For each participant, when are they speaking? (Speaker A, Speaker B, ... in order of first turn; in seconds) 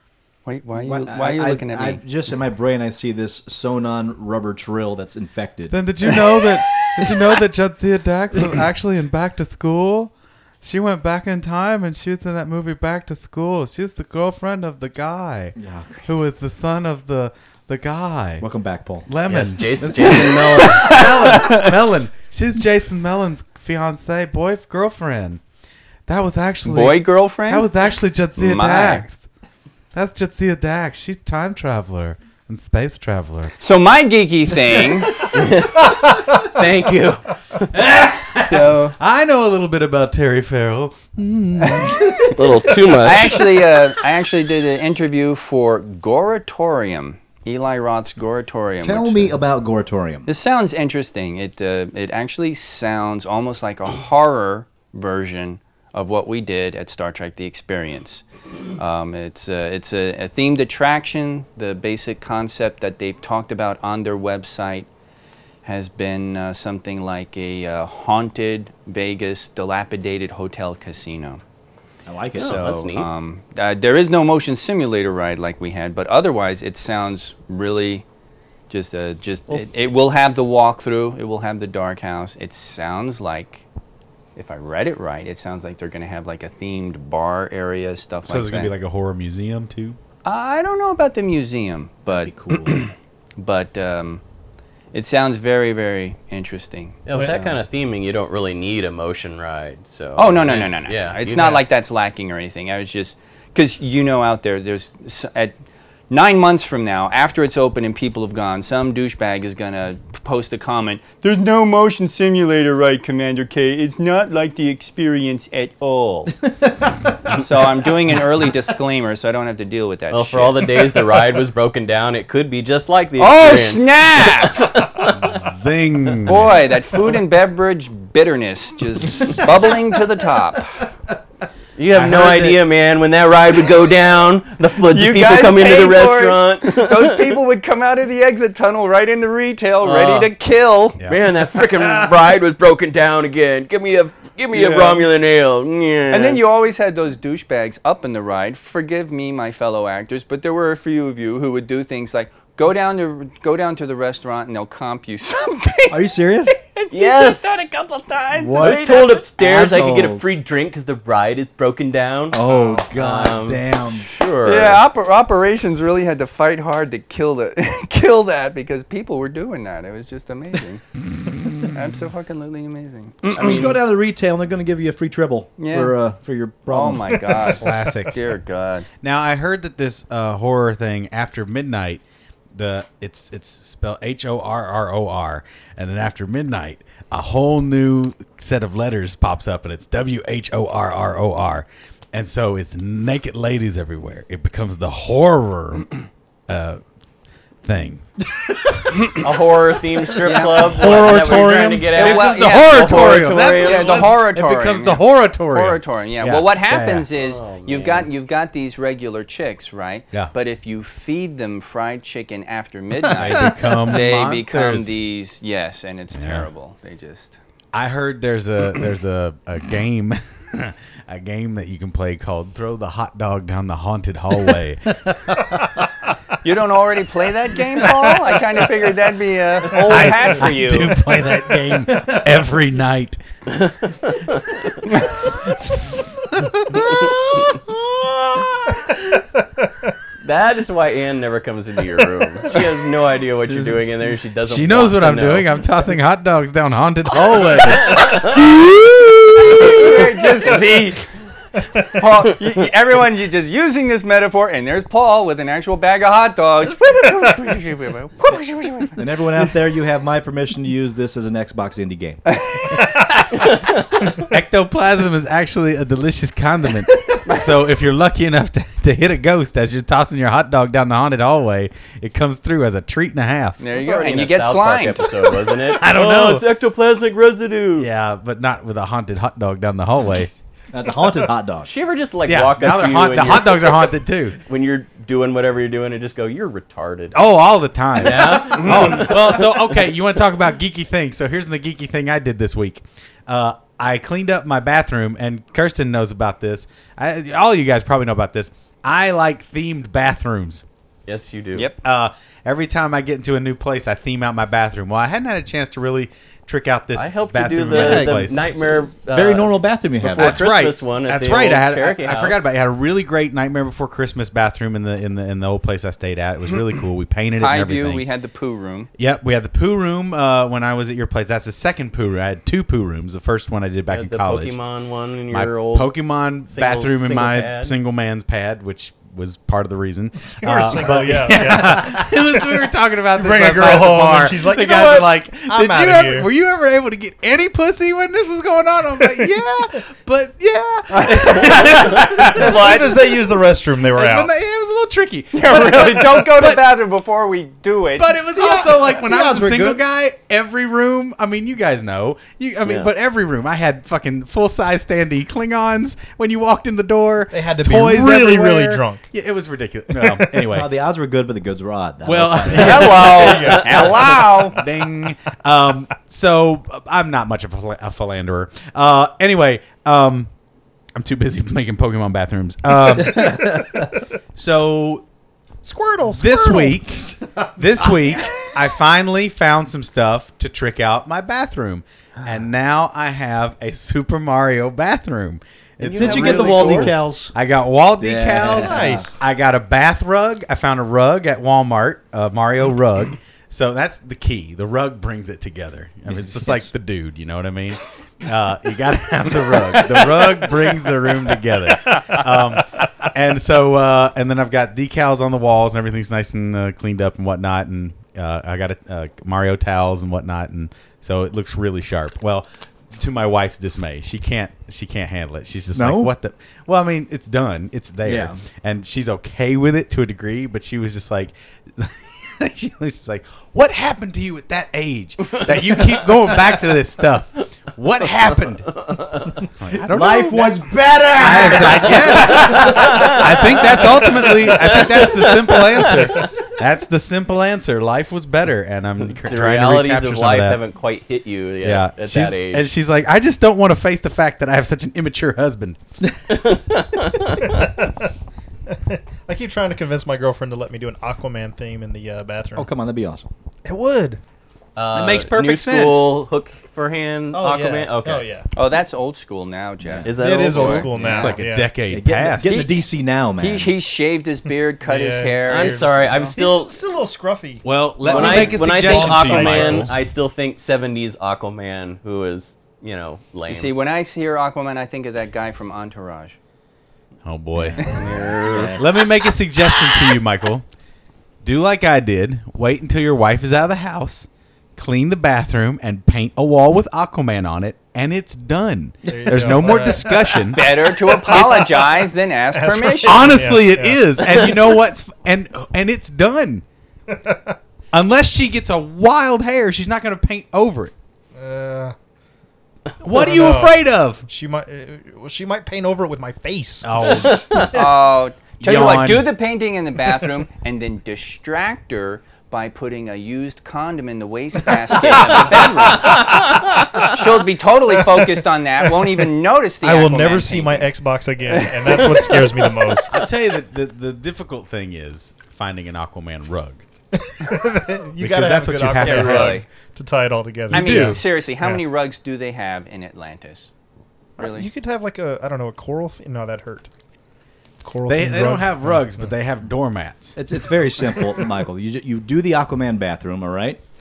Speaker A: 0.5-2.0, 20.5-21.7, 26.6-27.7, 28.4-29.1, 33.6-35.2, 38.5-39.0, 41.6-42.0, 43.0-49.4, 50.3-58.2, 58.8-64.9, 65.6-71.4, 72.3-78.0, 78.7-83.7, 84.4-88.7, 90.2-94.2, 94.9-97.6, 100.2-105.6, 106.1-116.3, 117.3-120.9, 123.2-124.8, 126.2-130.8, 134.9-141.0, 144.5-145.1, 146.1-159.2, 162.5-162.8, 164.4-170.8, 171.6-173.8, 175.6-176.0, 176.7-178.9, 200.2-201.1, 201.9-217.4, 226.4-231.0, 249.4-251.1, 251.8-259.1, 273.6-275.1, 317.4-318.9, 345.3-348.1, 362.5-364.6, 458.6-461.3, 462.4-462.8, 463.4-466.1, 473.5-476.4, 490.5-493.4, 507.7-516.4, 517.0-520.9, 521.5-522.5, 529.0-529.7, 530.7-533.7, 534.4-534.7
Speaker B: 0.8-6.2, 15.6-16.0, 18.4-19.1, 48.8-50.3, 72.1-72.7, 92.1-92.8, 155.9-156.5, 158.3-160.3, 162.3-164.1, 173.3-177.6, 259.0-262.2, 280.7-281.7, 307.7-310.4, 348.4-349.8, 360.4-363.1, 386.0-387.3, 388.0-389.2, 396.1-396.7, 415.8-416.1, 418.1-418.4, 429.8-433.8, 452.6-453.3, 459.8-460.1, 461.9-463.7, 477.6-478.9, 540.4-543.8
Speaker C: 5.7-18.5, 19.1-25.4, 26.1-29.2, 29.9-33.5, 37.7-42.6, 88.2-90.0, 125.1-126.6, 131.9-132.6, 177.6-178.2, 179.0-182.0, 182.5-195.9, 196.5-196.8, 197.6-198.1, 200.8-207.1, 213.2-214.9, 216.1-216.5, 217.7-225.5, 229.8-233.2, 244.5-248.7, 264.2-273.6, 275.7-276.5, 277.8-280.4, 282.3-284.4, 287.1-300.6, 301.8-308.4, 310.1-318.1, 319.0-324.5, 325.3-343.2, 343.9-346.7, 348.0-360.7, 362.1-370.3, 370.9-373.7, 374.4-375.0, 376.1-428.8, 429.6-430.5, 431.2-440.6, 441.6-445.8, 454.9-456.1, 461.0-462.6, 467.6-469.9, 477.2-477.9, 478.8-480.6, 481.4-491.6, 493.0-496.6, 497.9-500.9, 503.0-504.3, 506.8-507.7, 508.6-509.3, 523.1-526.9, 528.2-529.6, 530.7-531.2, 538.1-540.4
Speaker D: 19.3-21.1, 35.3-37.7, 42.3-43.5, 72.3-73.1, 97.1-101.6, 120.1-125.2, 131.8-137.3, 139.8-140.3, 141.1-146.4, 156.9-157.4, 158.6-164.8, 173.4-173.8, 199.1-204.1, 207.2-208.1, 233.5-234.8, 240.2-245.5, 247.9-248.2, 273.7-277.9, 281.6-287.2, 288.0-289.6, 301.1-301.7, 306.9-312.4, 323.9-325.9, 326.5-327.8, 352.6-352.9, 385.8-387.0, 431.2-433.3, 434.4-436.3, 439.1-442.6, 446.3-447.6, 454.8-458.3, 460.1-461.4, 465.5-466.8, 468.0-473.7, 477.8-478.8, 514.9-517.1
Speaker E: 200.8-201.9, 330.3-332.5, 333.2-336.3, 339.0-339.3, 340.9-344.3, 357.3-359.1, 360.0-360.4, 362.8-363.7, 375.6-376.9, 388.4-389.2, 447.4-448.1, 448.7-452.7, 453.6-454.2, 457.3-458.5, 460.1-461.8, 464.9-470.0, 489.1-494.8, 497.1-497.6, 501.4-501.9, 503.1-508.0, 518.9-519.2, 519.8-523.2, 527.2-531.8, 534.4-536.9, 537.8-539.1